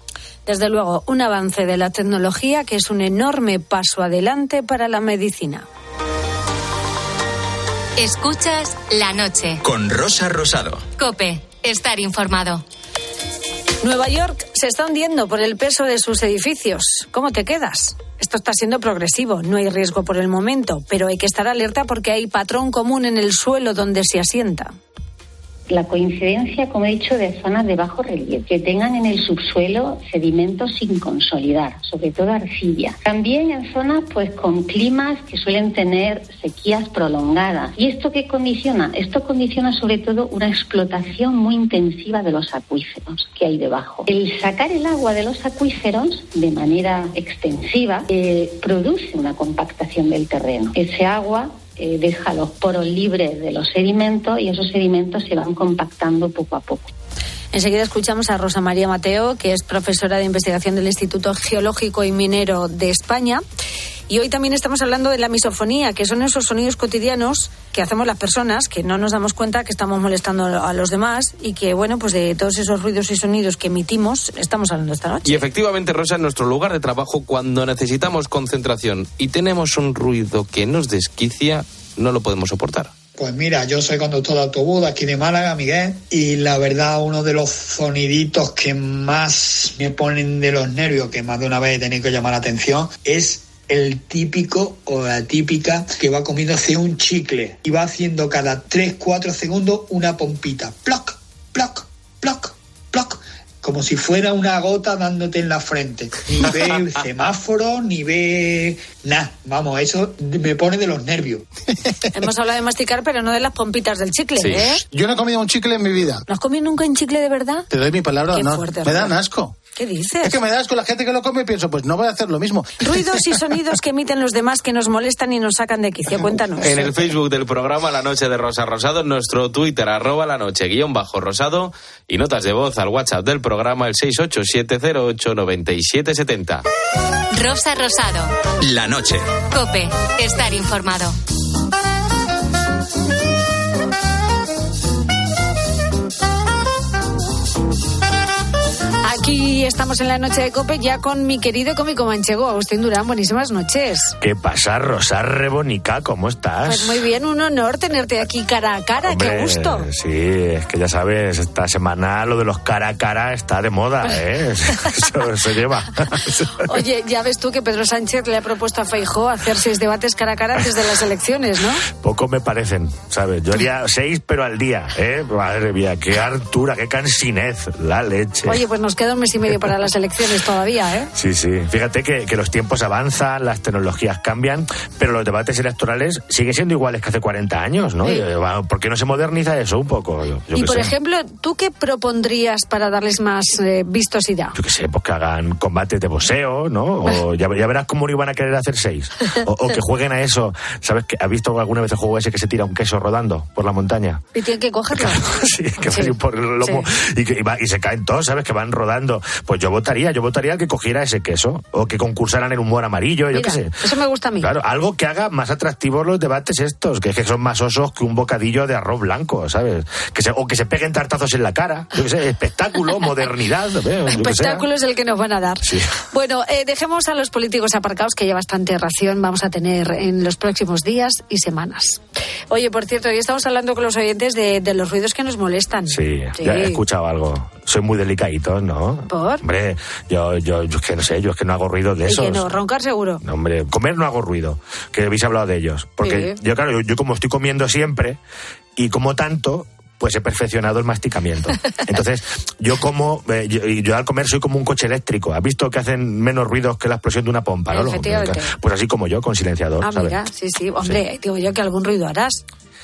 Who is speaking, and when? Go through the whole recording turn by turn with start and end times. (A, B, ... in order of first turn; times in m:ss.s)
0:00.5-0:05.7 A
0:08.0-0:09.6 B
0:09.6-0:10.9 C
0:11.0-0:12.6 B
0:13.8-0:24.7 A
0:25.7-0:56.9 D
0:57.5-1:03.4 A
1:04.1-1:15.5 A
1:15.2-1:22.9 E
1:23.2-1:51.4 F
1:52.1-1:54.8 A
1:54.4-1:54.7 E
1:54.8-1:56.2 G
1:56.3-1:57.7 A
1:57.7-1:59.6 G
1:58.3-1:59.1 A
1:59.8-2:00.4 A
2:00.2-2:03.4 G
2:02.8-2:06.8 A
2:06.6-2:06.9 G
2:06.6-2:16.6 E
2:17.3-2:18.3 B
2:18.6-2:19.3 C
2:19.5-2:21.2 B
2:29.0-2:34.2 A
2:34.2-2:37.0 H
2:36.7-2:39.9 A
2:39.0-2:46.6 H
2:46.6-2:51.8 A
2:51.9-2:58.6 H
2:58.5-3:01.1 A
3:01.2-3:10.9 H
3:10.5-3:14.6 A
3:14.6-3:24.2 H
3:24.3-3:25.2 A
3:24.9-3:33.7 H
3:25.8-3:26.9 A
3:33.3-3:34.5 A
3:34.4-3:44.6 H
3:44.1-3:52.0 A
3:45.7-3:45.9 H
3:52.5-3:56.8 A
3:55.9-4:02.5 H
3:59.1-3:59.4 A
4:02.1-4:03.2 A
4:03.2-4:08.2 H
4:06.0-4:06.4 A
4:08.8-4:20.2 H
4:17.7-4:18.5 A
4:19.8-4:22.4 A